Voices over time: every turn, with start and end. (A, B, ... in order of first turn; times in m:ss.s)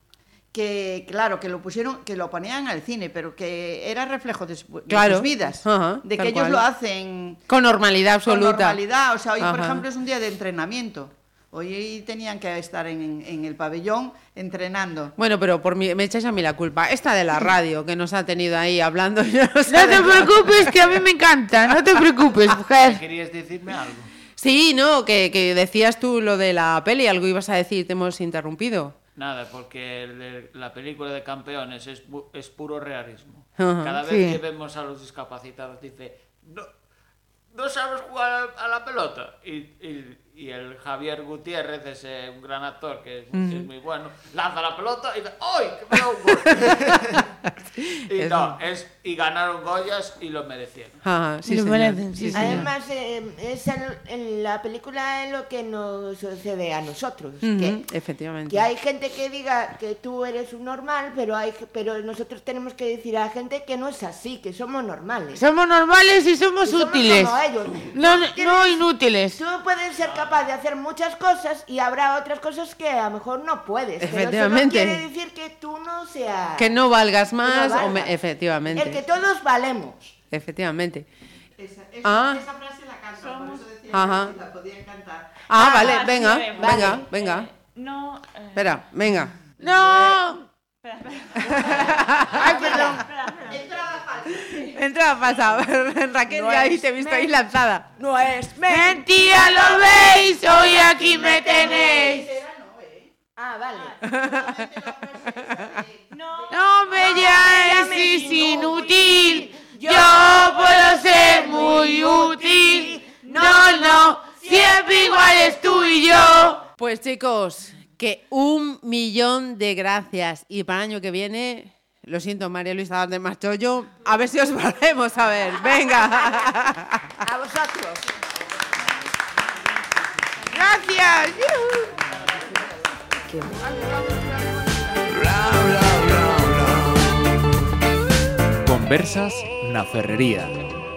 0:00.5-0:07.4 A
0:04.9-0:06.6 B
0:07.5-0:08.8 B
0:08.2-0:15.1 A
0:09.4-0:09.8 B
0:15.2-0:20.9 B
0:19.7-0:23.0 C
0:22.7-0:24.1 D
0:24.4-0:29.0 B
0:29.2-0:36.7 D
0:33.6-0:34.0 B
0:34.0-0:34.4 C
0:37.5-0:47.3 D
0:43.3-0:43.7 B
0:46.4-0:47.2 B
0:47.8-0:48.6 B
0:48.1-0:51.0 D
0:51.0-0:52.6 B
0:51.5-0:52.7 C
0:52.3-0:57.8 E
0:57.4-0:58.6 B
0:58.5-1:05.4 E
1:05.3-1:07.4 C
1:06.6-1:16.7 E
1:07.9-1:09.4 C
1:10.0-1:10.4 D
1:14.0-1:15.0 B
1:16.6-1:19.0 B
1:17.4-1:18.1 E
1:18.7-1:20.1 E
1:20.3-1:21.0 B
1:21.6-1:25.5 A
1:22.0-1:22.4 B
1:23.2-1:23.7 F
1:23.9-1:24.3 B
1:25.5-1:27.5 B
1:25.6-1:26.0 E
1:25.6-1:28.8 F
1:26.5-1:27.1 E
1:28.5-1:30.4 B
1:30.8-1:33.8 F
1:31.6-1:32.5 B
1:32.4-1:33.0 C
1:32.4-1:33.0 E
1:33.4-1:34.8 A
1:34.5-1:37.8 B
1:36.3-1:37.2 E
1:38.0-1:42.1 E
1:38.7-1:42.2 C
1:41.5-1:43.1 A
1:43.4-1:44.0 E
1:43.7-1:44.1 F
1:44.1-1:44.6 B
1:44.1-1:46.1 A
1:46.1-1:48.9 F
1:46.5-1:56.6 C
1:46.9-1:53.9 E
1:53.4-1:54.0 F
1:56.8-2:07.2 B
2:07.2-2:08.0 E
2:10.5-2:12.0 C
2:13.3-2:13.6 E
2:13.6-2:14.9 C
2:15.3-2:16.9 G
2:18.6-2:20.6 G